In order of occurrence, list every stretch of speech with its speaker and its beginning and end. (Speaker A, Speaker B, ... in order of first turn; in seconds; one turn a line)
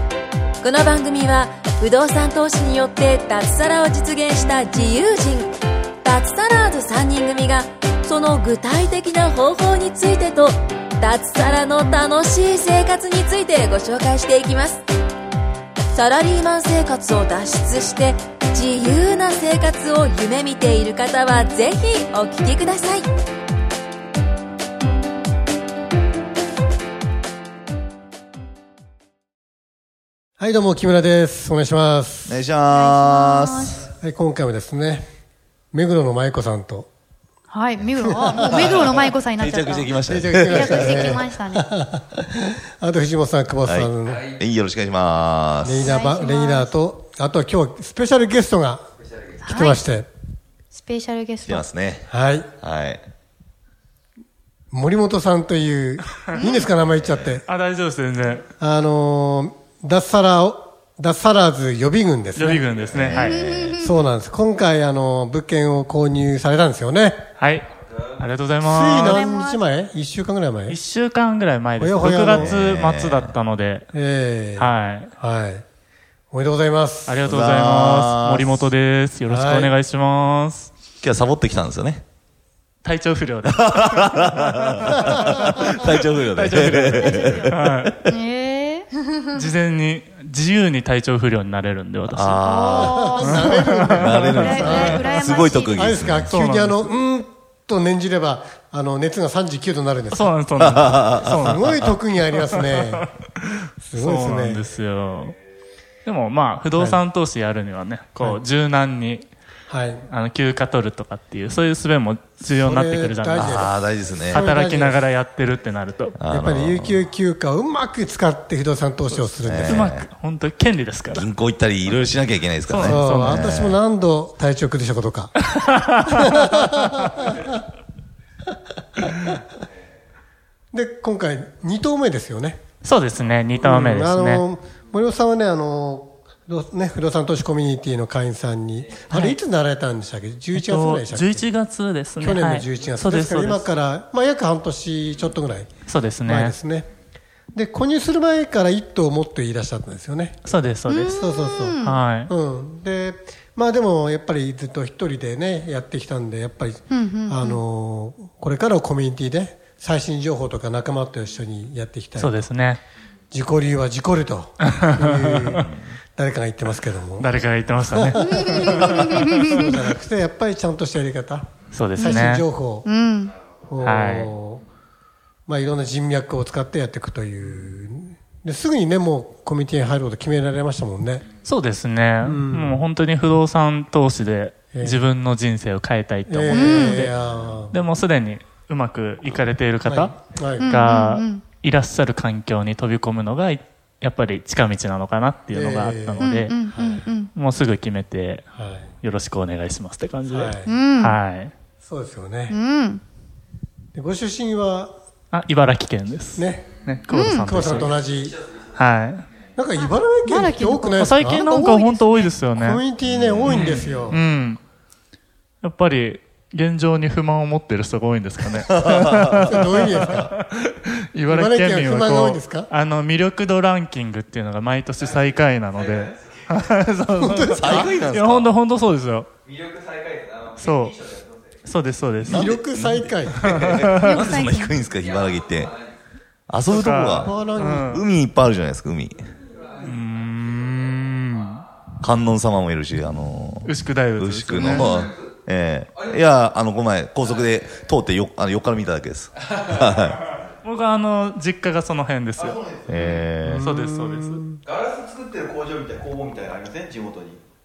Speaker A: 0.6-14.8
Speaker A: 15.9-23.1
Speaker B: 30.4-32.4
Speaker C: 32.3-33.9
Speaker D: 32.7-33.8
Speaker B: 33.8-35.0
Speaker B: 35.7-36.9
Speaker D: 37.5-41.7
Speaker C: 37.8-41.3
Speaker B: 38.1-38.7
Speaker B: 40.0-44.3
Speaker C: 43.7-46.0
Speaker B: 45.6-48.9
Speaker D: 45.8-46.7
Speaker E: 49.0-49.4
Speaker D: 49.4-49.9
Speaker B: 49.5-50.1
Speaker D: 50.7-51.7
Speaker C: 51.5-52.1
Speaker B: 52.1-52.5
Speaker C: 52.6-53.0
Speaker B: 54.7-57.4
Speaker C: 56.7-57.4
Speaker F: 57.5-58.4
Speaker B: 58.6-62.8
Speaker F: 62.4-63.6
Speaker C: 62.9-63.8
Speaker D: 63.2-63.9
Speaker B: 63.8-67.2
Speaker F: 67.4-69.2
Speaker B: 68.6-70.8
Speaker D: 69.0-69.6
Speaker F: 70.7-73.9
Speaker B: 71.8-72.6
Speaker C: 72.3-73.4
Speaker B: 73.9-75.6
Speaker F: 74.6-75.1
Speaker B: 76.3-77.2
Speaker F: 77.0-80.7
Speaker C: 77.2-78.7
Speaker B: 79.3-79.7
Speaker C: 81.0-82.0
Speaker F: 82.8-88.0
Speaker C: 83.4-88.0
Speaker D: 86.9-87.5
Speaker D: 88.0-89.4
Speaker F: 89.3-92.4
Speaker C: 92.1-93.0
Speaker D: 92.4-93.6
Speaker B: 92.8-100.3
Speaker F: 93.1-95.1
Speaker C: 93.9-96.3
Speaker D: 94.3-95.9
Speaker F: 96.3-96.9
Speaker F: 100.1-105.4
Speaker C: 100.6-101.6
Speaker B: 101.1-103.1
Speaker B: 103.8-104.6
Speaker F: 106.0-109.3
Speaker B: 106.7-107.0
Speaker B: 109.7-110.0
Speaker F: 110.1-113.7
Speaker B: 112.4-115.0
Speaker C: 113.4-114.5
Speaker F: 114.3-116.2
Speaker C: 116.1-117.0
Speaker B: 116.3-119.9
Speaker F: 119.1-121.3
Speaker C: 119.5-120.1
Speaker C: 121.1-123.8
Speaker F: 122.7-123.5
Speaker B: 122.8-127.5
Speaker F: 125.5-127.2
Speaker B: 129.0-129.4
Speaker B: 130.7-132.6
Speaker F: 132.8-134.4
Speaker B: 133.6-141.5
Speaker F: 139.1-139.4
Speaker F: 140.5-143.7
Speaker B: 142.2-145.7
Speaker F: 145.8-146.6
Speaker B: 146.2-146.9
Speaker B: 147.5-150.4
Speaker F: 150.4-151.2
Speaker D: 150.9-152.0
Speaker B: 151.1-162.5
Speaker F: 151.8-152.3
Speaker D: 156.9-157.6
Speaker F: 162.2-162.8
Speaker B: 163.3-167.3
Speaker F: 164.6-165.7
Speaker F: 167.2-169.7
Speaker B: 167.9-172.9
Speaker D: 168.5-169.6
Speaker F: 171.7-172.5
Speaker D: 172.0-172.3
Speaker D: 172.8-173.3
Speaker B: 173.7-174.6
Speaker F: 173.8-174.3
Speaker B: 175.5-181.2
Speaker F: 181.4-187.2
Speaker B: 182.2-182.8
Speaker B: 184.7-185.1
Speaker B: 186.3-187.8
Speaker D: 186.5-187.1
Speaker F: 187.7-196.6
Speaker B: 189.8-190.7
Speaker D: 190.6-191.4
Speaker B: 195.5-197.0
Speaker D: 196.2-197.3
Speaker F: 197.3-198.4
Speaker B: 198.5-198.9
Speaker F: 199.0-201.5
Speaker B: 200.2-200.8
Speaker D: 200.7-201.2
Speaker B: 201.8-202.6
Speaker D: 202.5-203.0
Speaker B: 203.9-204.9
Speaker F: 205.3-208.0
Speaker B: 206.3-208.4
Speaker D: 207.1-207.5
Speaker F: 208.8-209.2
Speaker B: 209.6-211.4
Speaker D: 210.2-212.4
Speaker F: 211.0-212.8
Speaker B: 212.5-214.2
Speaker C: 213.0-214.1
Speaker F: 213.5-214.6
Speaker F: 215.6-229.3
Speaker C: 218.7-220.3
Speaker B: 219.4-220.3
Speaker B: 221.3-222.7
Speaker E: 225.7-226.5
Speaker B: 227.2-227.9
Speaker C: 227.5-228.5
Speaker E: 229.4-231.7
Speaker F: 230.6-231.0
Speaker F: 231.6-232.6
Speaker C: 232.2-235.8
Speaker B: 232.2-233.5
Speaker F: 233.3-234.3
Speaker D: 233.9-234.8
Speaker E: 235.0-235.9
Speaker C: 236.5-239.3
Speaker F: 236.7-238.1
Speaker B: 237.2-238.0
Speaker E: 239.4-240.7
Speaker F: 239.8-241.7
Speaker C: 242.0-250.3
Speaker F: 243.7-245.0
Speaker F: 250.6-252.6
Speaker C: 252.7-253.6
Speaker B: 253.4-254.6
Speaker F: 253.4-254.4
Speaker E: 254.7-257.4